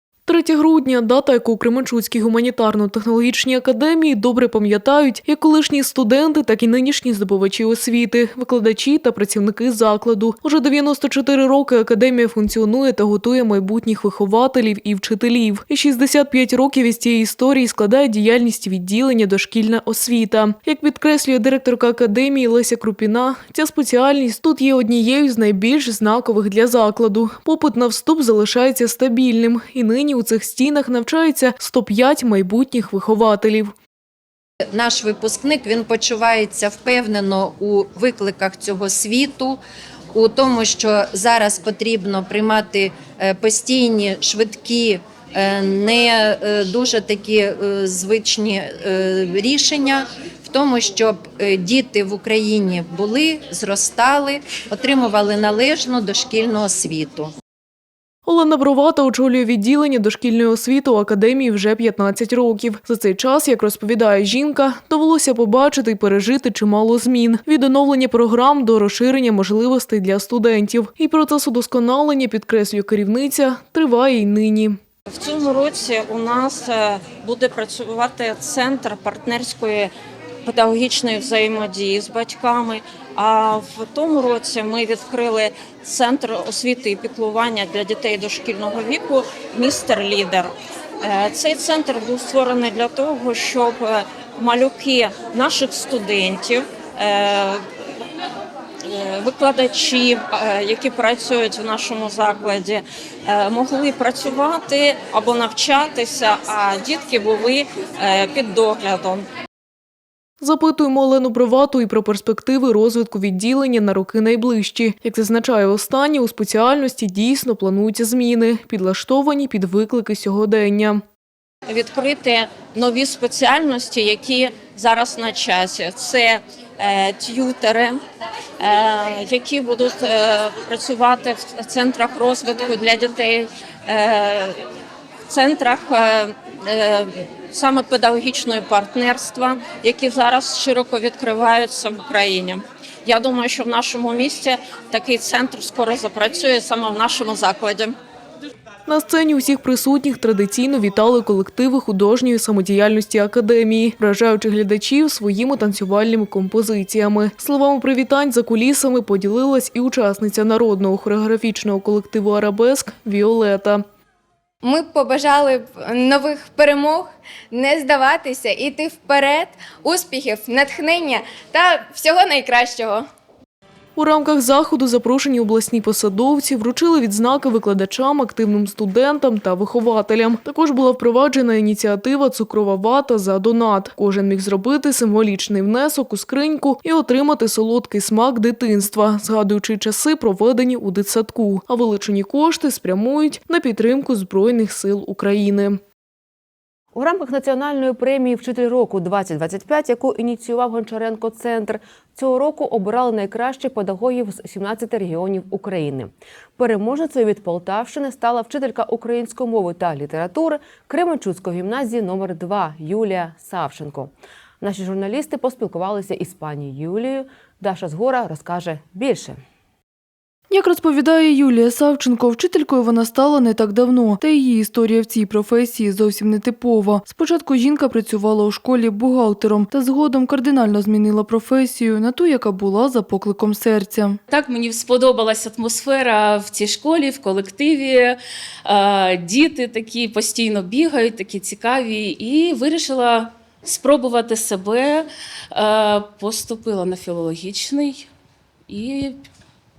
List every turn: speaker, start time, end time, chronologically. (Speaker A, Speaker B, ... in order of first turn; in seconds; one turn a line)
Speaker A: 0.3-33.7
Speaker B: 34.7-39.6
Speaker B: 40.1-57.3
Speaker A: 58.2-74.8
Speaker C: 75.1-79.9
Speaker C: 80.5-97.6
Speaker C: 98.9-109.3
Speaker A: 110.4-121.0
Speaker C: 121.7-128.0
Speaker C: 128.6-134.6
Speaker C: 135.3-148.0
Speaker A: 148.9-163.8
Speaker D: 164.6-173.1
Speaker A: 174.0-195.8
Speaker E: 196.9-219.4
Speaker F: 220.5-234.1
Speaker G: 234.3-248.1
Speaker G: 248.7-249.2